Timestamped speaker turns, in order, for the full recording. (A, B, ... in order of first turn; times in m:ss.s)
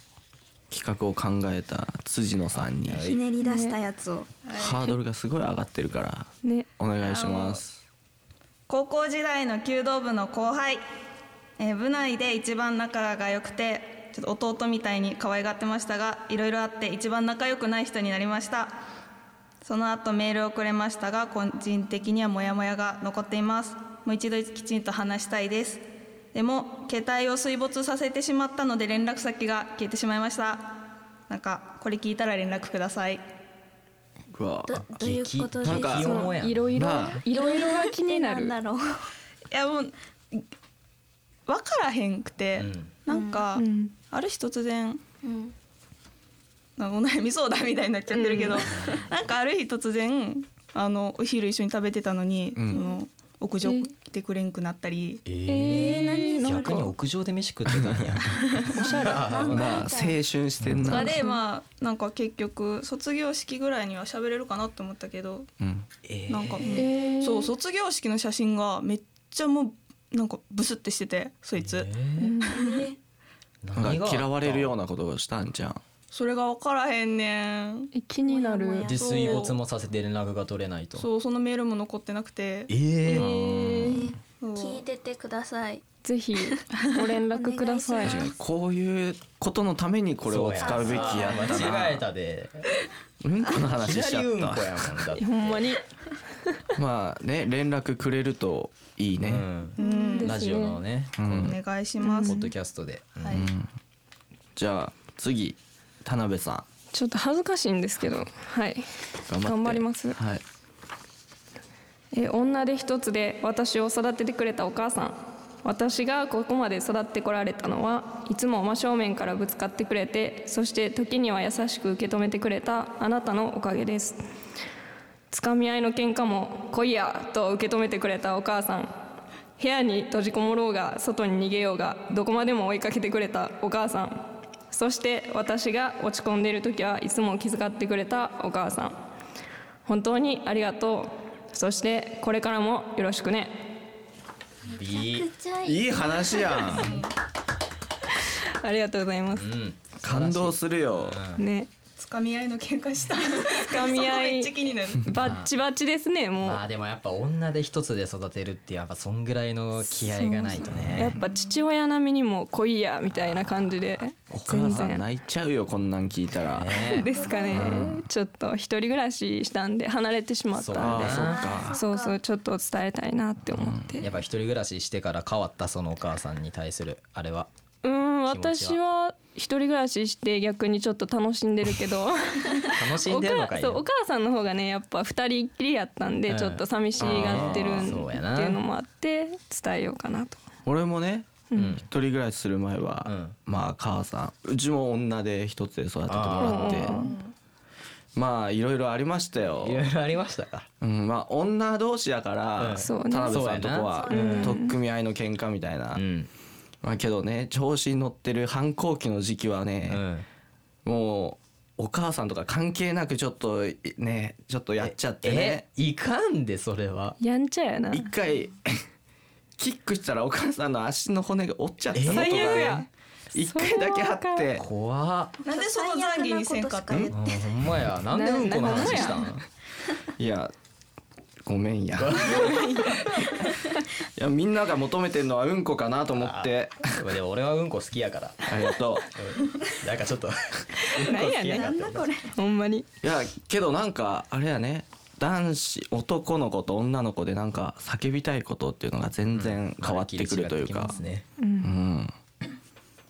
0:00.7-0:03.0 A
0:02.5-0:03.2 B
0:03.0-0:04.3 C
0:03.4-0:03.8 D
0:04.5-0:04.9 E
0:04.6-0:07.8 A
0:06.4-0:06.7 D
0:07.0-0:07.6 E
0:08.7-0:10.8 E
0:11.6-0:18.7 E
0:19.6-0:25.8 E
0:26.3-0:30.7 E
0:31.3-0:33.2 E
0:34.3-0:34.8 A
0:34.6-0:36.3 C
0:34.9-0:36.7 B
0:35.6-0:36.2 A
0:35.9-0:38.6 D
0:36.7-0:37.2 A
0:37.3-0:39.1 C
0:39.5-0:40.4 E
0:41.5-0:45.0 E
0:42.6-0:42.9 B
0:43.1-0:43.5 C
0:43.6-0:43.9 D
0:45.2-0:45.6 C
0:46.8-0:55.2 E
0:48.1-0:48.6 D
0:52.7-0:53.0 C
0:53.6-0:53.9 D
0:55.2-0:59.8 B
0:55.5-0:56.9 D
0:55.6-0:56.9 C
0:57.7-0:58.2 A
0:58.7-0:59.6 D
0:58.7-1:00.2 C
0:59.5-1:01.2 A
1:00.6-1:01.1 B
1:00.8-1:05.5 E
1:01.0-1:01.4 D
1:05.6-1:05.9 A
1:06.0-1:06.8 B
1:06.3-1:11.9 E
1:06.7-1:07.5 D
1:11.6-1:12.3 B
1:12.2-1:12.6 D
1:12.5-1:13.0 C
1:13.6-1:14.8 B
1:13.8-1:15.8 A
1:16.1-1:17.8 E
1:17.9-1:18.9 D
1:18.2-1:19.5 C
1:18.9-1:21.1 B
1:18.9-1:19.6 E
1:21.0-1:22.7 E
1:22.7-1:24.0 B
1:23.1-1:24.1 D
1:23.1-1:25.8 C
1:24.5-1:24.8 E
1:26.0-1:28.2 D
1:26.4-1:26.6 C
1:27.3-1:28.3 C
1:28.0-1:32.0 A
1:30.2-1:32.7 B
1:30.6-1:31.8 C
1:33.2-1:35.0 A
1:33.7-1:35.6 B
1:35.2-1:35.9 D
1:36.8-1:39.5 A
1:39.2-1:41.6 B
1:39.8-1:40.2 C
1:39.8-1:40.8 D
1:41.2-1:41.6 A
1:41.5-1:42.3 E
1:42.0-1:42.5 D
1:42.2-1:43.4 B
1:43.3-1:43.7 A
1:44.6-1:46.6 A
1:46.9-1:48.8 D
1:49.2-1:50.4 A
1:49.4-1:50.2 D
1:52.1-2:04.2 D
2:05.3-2:08.9 D
2:09.6-2:19.0 D
2:19.9-2:23.6 D
2:24.7-2:26.8 C
2:24.7-2:25.3 B
2:25.6-2:27.0 A
2:26.8-2:27.1 E
2:28.3-2:29.5 D
2:29.3-2:31.4 B
2:30.0-2:31.2 A
2:31.4-2:31.7 D
2:32.0-2:35.0 E
2:33.4-2:36.6 D
2:35.1-2:35.5 B
2:36.4-2:41.2 B
2:39.8-2:45.1 D
2:43.1-2:43.9 B
2:44.3-2:46.8 A
2:46.5-2:47.1 B
2:46.7-2:54.1 D
2:47.1-2:47.8 C
2:47.5-2:48.0 A
2:50.5-2:51.4 B
2:50.7-2:51.8 A
2:51.0-2:52.2 C
2:53.5-2:54.1 A
2:54.0-2:57.5 B
2:57.8-3:10.4 D
2:58.3-2:58.8 B
3:02.7-3:03.9 B
3:06.3-3:08.6 B
3:07.0-3:08.0 A
3:10.6-3:17.0 A
3:11.5-3:11.8 D
3:11.6-3:11.9 B
3:13.0-3:13.4 B
3:16.1-3:17.0 B
3:16.4-3:17.1 D
3:17.0-3:17.3 E
3:18.1-3:19.9 A
3:19.6-3:20.7 B
3:20.8-3:26.0 A
3:22.6-3:24.6 B
3:22.8-3:23.4 D
3:23.9-3:24.6 C
3:24.1-3:24.8 D
3:26.0-3:26.3 B
3:26.8-3:30.0 A
3:29.9-3:30.3 B
3:30.9-3:35.6 A
3:34.8-3:37.2 B
3:37.2-3:38.1 D
3:37.9-3:38.7 A
3:39.6-3:44.6 A
3:41.9-3:42.7 B
3:42.1-3:44.5 D
3:44.6-3:45.4 B
3:45.4-3:47.5 C
3:45.5-3:47.0 E
3:46.9-3:47.1 A
3:47.1-3:49.4 B
3:48.1-3:49.3 D
3:48.6-3:49.1 C
3:50.2-3:50.5 A
3:51.4-3:52.7 A
3:52.0-3:52.7 B
3:54.0-3:57.0 A
3:56.2-4:02.1 B
3:58.5-3:59.1 A
4:00.9-4:01.8 D
4:01.5-4:02.4 C
4:02.3-4:02.9 D
4:03.0-4:11.0 A
4:09.3-4:11.2 B
4:11.4-4:11.7 D
4:11.6-4:12.1 A